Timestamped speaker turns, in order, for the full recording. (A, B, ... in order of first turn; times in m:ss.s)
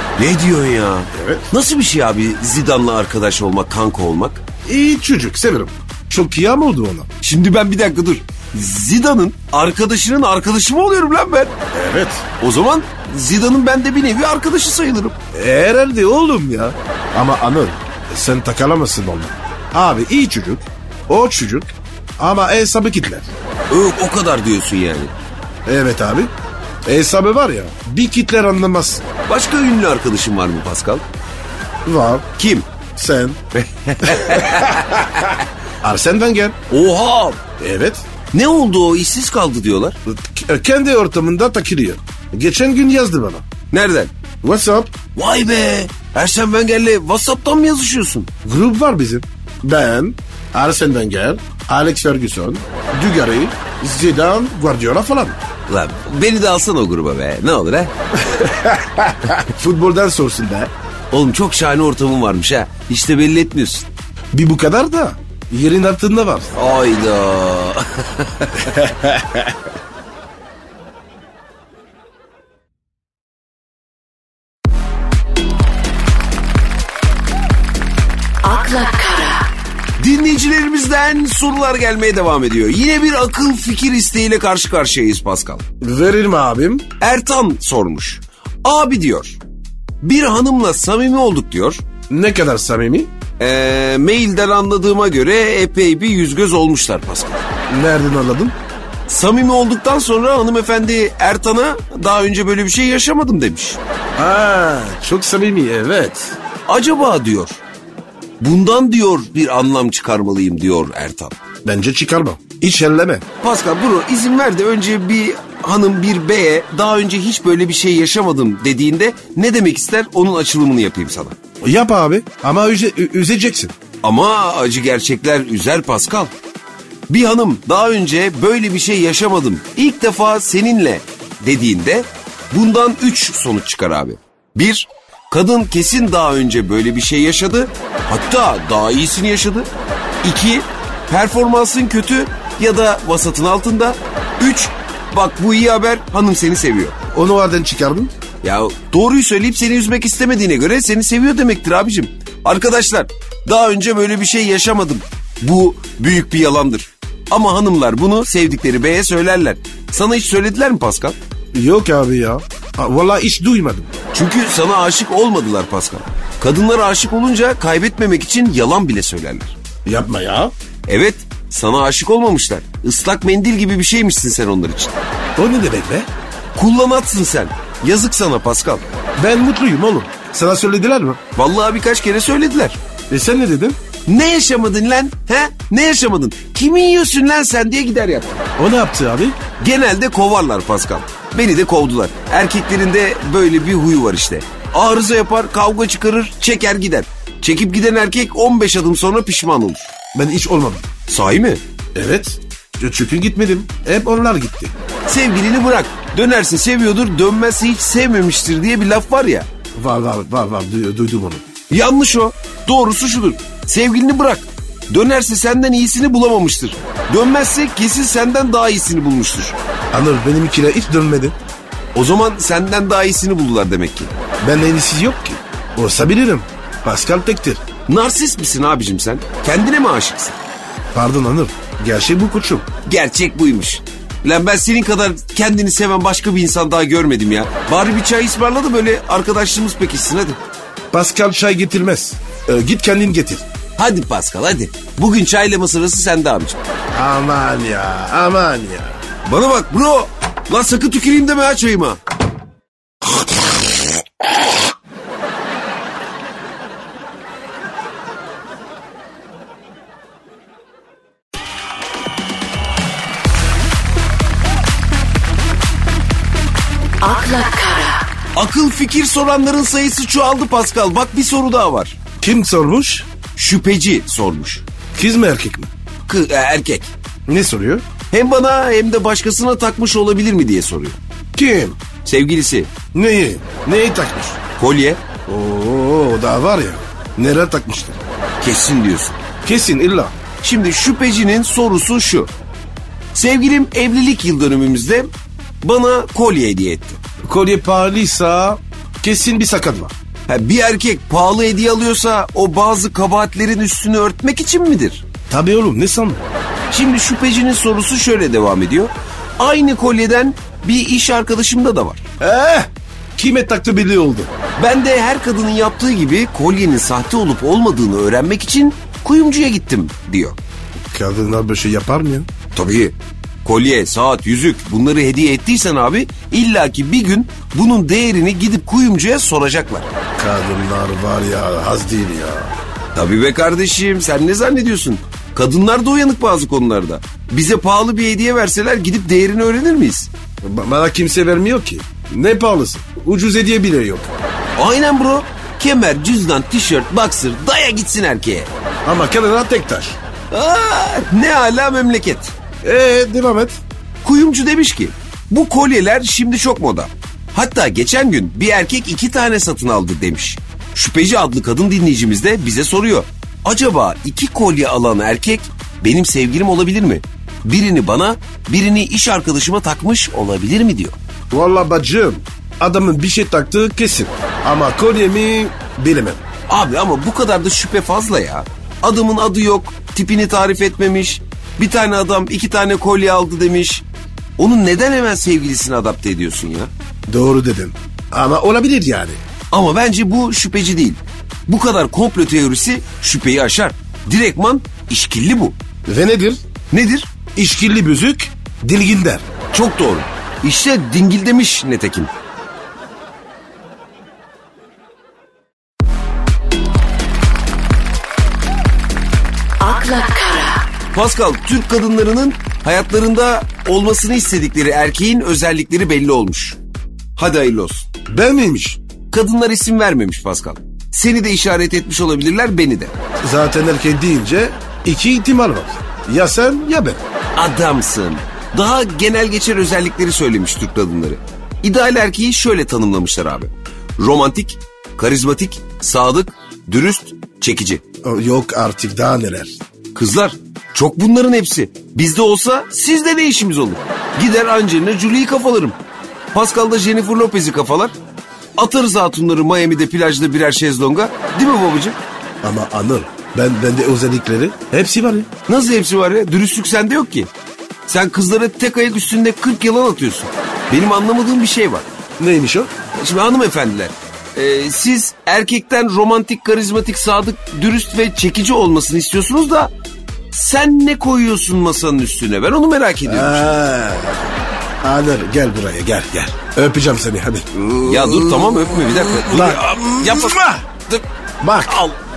0:00.2-0:04.4 A
0:01.1-0:01.5 B
0:04.7-0:07.1 B
0:07.2-0:11.5 A
0:11.7-0:12.2 B
0:12.4-0:15.2 A
0:15.3-0:23.3 B
0:23.7-0:25.1 A
0:25.7-0:26.3 B
0:26.9-0:29.1 B
0:29.3-0:31.0 A
0:31.9-0:32.2 B
0:32.4-0:32.7 A
0:33.0-0:33.4 B
0:33.5-0:35.4 A
0:34.0-0:35.0 B
0:35.8-0:36.6 B
0:36.7-0:37.4 A
0:37.6-0:38.0 B
0:38.3-0:40.0 A
0:40.1-0:43.4 B
0:43.7-0:44.1 A
0:44.4-0:44.9 B
0:45.1-0:48.3 A
0:48.4-0:55.4 B
0:55.7-0:57.9 A
0:58.2-1:00.7 B
1:01.1-1:03.9 A
1:04.3-1:06.5 B
1:06.5-1:08.9 A
1:08.7-1:09.5 B
1:18.5-1:19.5 A
1:18.8-1:19.2 C
1:20.0-1:25.6 A
1:25.8-1:26.8 B
1:27.0-1:29.4 A
1:30.0-1:31.8 A
1:32.1-1:33.1 B
1:33.4-1:37.4 A
1:37.7-1:38.5 B
1:39.1-1:43.8 A
1:44.2-1:46.4 B
1:46.7-1:47.6 A
1:48.4-1:51.4 A
1:51.6-1:53.2 B
1:53.4-2:01.4 A
2:01.6-2:03.7 B
2:04.0-2:06.3 A
2:07.1-2:19.7 A
2:20.2-2:27.0 A
2:27.1-2:28.1 B
2:28.4-2:41.2 A
2:41.6-2:43.9 B
2:44.1-2:49.6 A
2:49.9-2:50.5 B
2:50.9-2:55.0 A
2:55.4-2:56.1 B
2:56.6-2:58.8 A
2:59.2-3:01.2 B
3:01.4-3:02.8 A
3:03.1-3:03.8 B
3:04.1-3:08.4 A
3:08.6-3:09.4 B
3:09.6-3:19.9 A
3:20.1-3:20.8 B
3:21.1-3:21.6 A
3:22.0-3:24.7 B
3:25.1-3:29.5 A
3:29.8-3:31.4 B
3:31.7-3:39.6 A
3:39.9-3:41.4 B
3:42.0-3:44.1 A
3:44.4-3:47.6 B
3:47.9-3:50.4 A
3:50.9-3:52.7 B
3:52.9-4:00.4 A
4:00.9-4:03.4 B
4:03.8-4:06.6 A
4:06.9-4:09.0 B
4:09.3-4:12.0 A
4:13.1-4:13.5 B
4:27.0-4:28.0 C
4:28.4-4:32.0 A
4:32.2-4:33.1 B
4:33.4-4:34.6 A
4:35.0-4:35.7 B
4:36.1-4:36.9 A
4:37.3-4:37.8 B
4:38.1-4:41.0 A
4:41.4-4:41.8 B
4:42.0-4:42.7 A
4:42.9-4:44.4 B
4:44.6-4:45.0 A
4:45.3-4:48.0 B
4:48.4-4:49.2 A
4:49.4-4:50.2 B
4:50.4-4:52.3 A
4:53.1-4:55.1 A
4:55.6-4:57.0 A
4:57.2-4:59.9 B
5:00.3-5:05.0 A
5:05.3-5:06.2 B
5:06.7-5:12.0 A
5:12.2-5:14.3 B
5:14.6-5:20.4 A
5:20.8-5:22.3 B
5:22.6-5:29.9 A
5:30.2-5:32.5 B
5:32.9-5:40.1 A
5:40.4-5:44.1 B
5:44.6-5:48.5 A
5:48.8-5:50.0 B
5:50.3-5:52.3 A
5:52.6-5:53.6 B
5:54.0-6:11.0 A
6:11.3-6:16.2 B
6:16.5-6:23.8 A
6:24.4-6:26.7 A
6:27.1-6:29.2 B
6:29.5-6:35.6 A
6:35.9-6:36.4 B
6:36.7-6:37.1 A
6:37.4-6:39.2 B
6:39.5-6:42.1 A
6:49.6-6:50.6 C
6:50.9-6:56.6 A
6:57.2-6:57.9 A
6:58.1-6:58.8 B
6:59.1-7:02.9 A
7:03.2-7:07.0 B
7:07.4-7:17.8 A
7:18.0-7:19.6 B
7:20.0-7:25.8 A
7:26.3-7:28.0 A
7:28.6-7:32.0 A
7:32.4-7:35.3 B
7:35.5-7:37.3 A
7:37.9-7:41.9 A
7:42.2-7:42.7 B
7:43.0-7:49.7 A
7:50.3-7:53.6 A
7:53.1-8:00.7 B
7:57.8-8:00.4 A
8:01.4-8:01.8 B
8:01.6-8:02.0 A